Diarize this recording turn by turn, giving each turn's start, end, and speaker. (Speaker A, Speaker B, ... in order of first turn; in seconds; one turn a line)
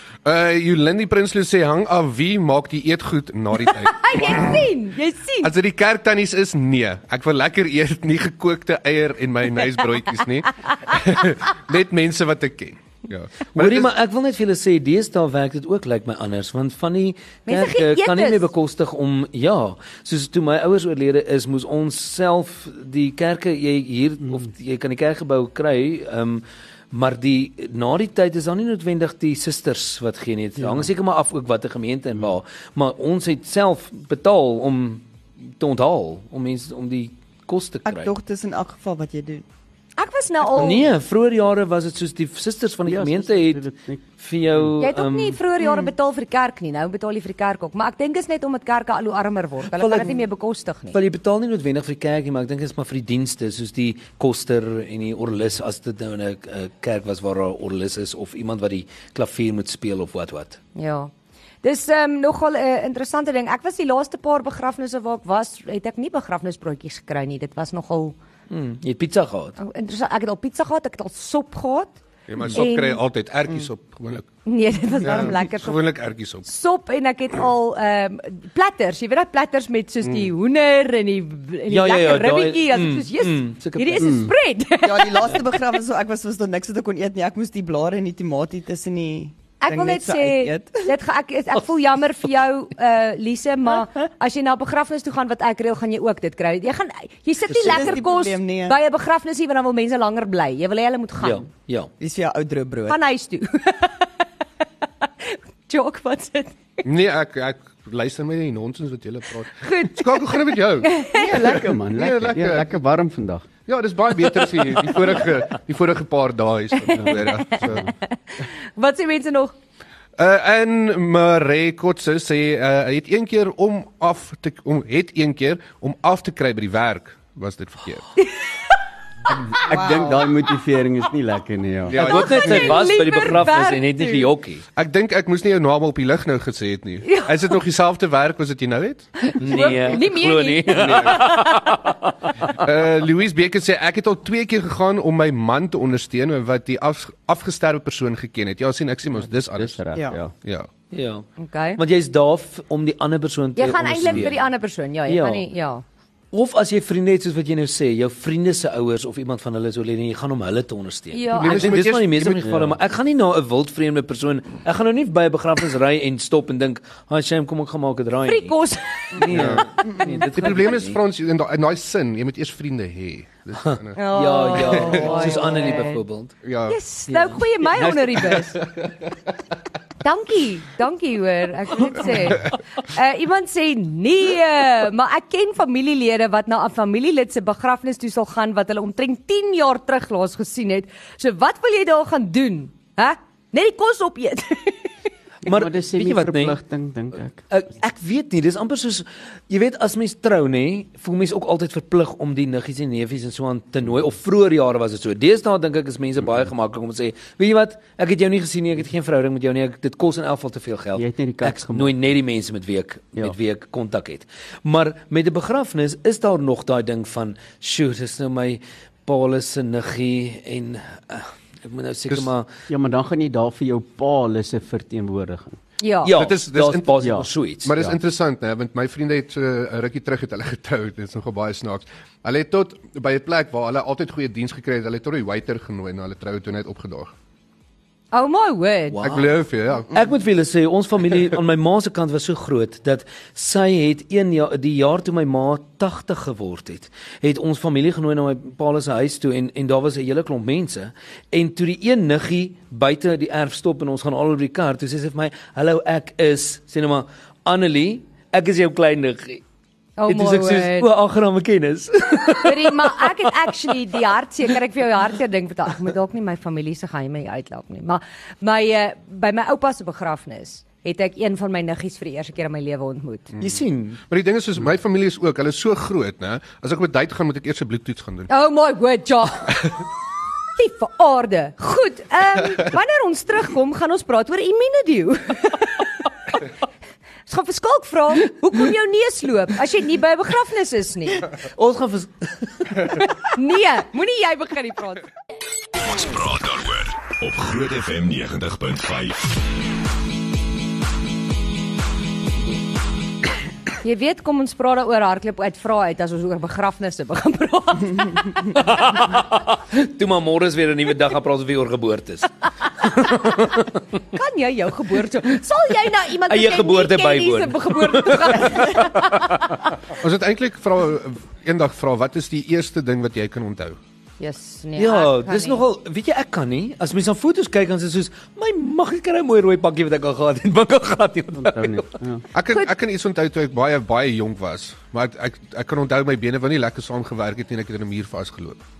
Speaker A: 0.2-4.7
Speaker B: 3.6-5.5
Speaker A: 5.4-13.9
Speaker C: 13.5-35.0
Speaker B: 17.5-18.5
Speaker D: 30.6-30.9
Speaker C: 35.6-38.1
Speaker E: 37.9-39.4
Speaker B: 40.0-40.9
Speaker C: 40.5-43.6
Speaker D: 42.8-44.0
Speaker C: 44.2-45.4
Speaker B: 44.8-51.0
Speaker E: 45.6-45.9
Speaker C: 49.7-50.2
Speaker C: 50.9-60.6
Speaker B: 60.8-61.1
Speaker B: 61.6-68.2
Speaker C: 68.5-69.6
Speaker B: 69.6-72.0
Speaker A: 72.3-74.3
Speaker B: 72.5-73.0
Speaker B: 74.4-75.8
Speaker A: 75.0-76.5
Speaker B: 76.4-85.6
Speaker C: 81.7-84.2
Speaker D: 84.0-84.3
Speaker E: 84.8-90.9
Speaker B: 89.6-101.4
Speaker E: 97.5-98.8
Speaker C: 97.7-98.0
Speaker C: 101.2-101.9
Speaker E: 102.0-103.0
Speaker B: 102.9-104.1
Speaker B: 105.2-106.8
Speaker A: 106.8-112.7
Speaker B: 109.6-111.6
Speaker D: 111.1-113.5
Speaker A: 113.7-117.9
Speaker B: 116.7-118.1
Speaker D: 116.9-117.9
Speaker B: 118.7-119.5
Speaker A: 120.2-128.1
Speaker D: 129.5-132.0
Speaker E: 129.7-130.2
Speaker A: 131.9-132.9
Speaker C: 131.9-134.6
Speaker B: 132.0-134.3
Speaker A: 134.8-139.7
Speaker B: 137.0-137.3
Speaker B: 139.2-141.5
Speaker C: 139.4-142.1
Speaker A: 140.8-141.2
Speaker A: 142.5-149.8
Speaker D: 149.4-150.3
Speaker E: 149.9-150.2
Speaker A: 150.3-150.7
Speaker C: 150.9-154.4
Speaker B: 151.4-151.8
Speaker B: 153.6-155.8
Speaker C: 155.1-155.5
Speaker C: 156.3-168.5
Speaker B: 161.1-161.8
Speaker A: 161.3-162.5
Speaker D: 162.4-162.7
Speaker B: 168.2-169.2
Speaker C: 169.2-171.0
Speaker A: 169.3-175.3
Speaker C: 173.6-176.3
Speaker B: 173.9-176.0
Speaker A: 176.4-176.8
Speaker B: 176.7-178.6
Speaker A: 178.3-178.9
Speaker B: 180.0-194.9
Speaker C: 195.4-196.6
Speaker D: 195.4-197.4
Speaker C: 197.5-222.5
Speaker D: 210.9-211.9
Speaker D: 222.7-225.6
Speaker B: 225.8-226.1
Speaker C: 226.0-227.7
Speaker A: 226.1-227.0
Speaker D: 227.0-228.0
Speaker A: 227.6-237.1
Speaker B: 238.1-239.0
Speaker C: 238.9-239.3
Speaker A: 239.0-239.9
Speaker C: 239.9-259.4
Speaker B: 260.0-260.9
Speaker C: 260.1-263.3
Speaker B: 262.4-273.3
Speaker A: 273.3-278.3
Speaker C: 273.4-274.0
Speaker B: 278.3-279.6
Speaker B: 280.6-286.4
Speaker B: 287.3-291.3
Speaker C: 291.3-293.1
Speaker B: 293.2-295.1
Speaker F: 295.8-299.4
Speaker B: 303.8-308.5
Speaker C: 308.5-313.8
Speaker B: 312.8-313.5
Speaker B: 314.1-319.5
Speaker C: 316.3-319.4
Speaker A: 320.0-323.8
Speaker B: 324.2-325.6
Speaker C: 324.8-331.9
Speaker D: 331.3-332.2
Speaker A: 332.3-338.6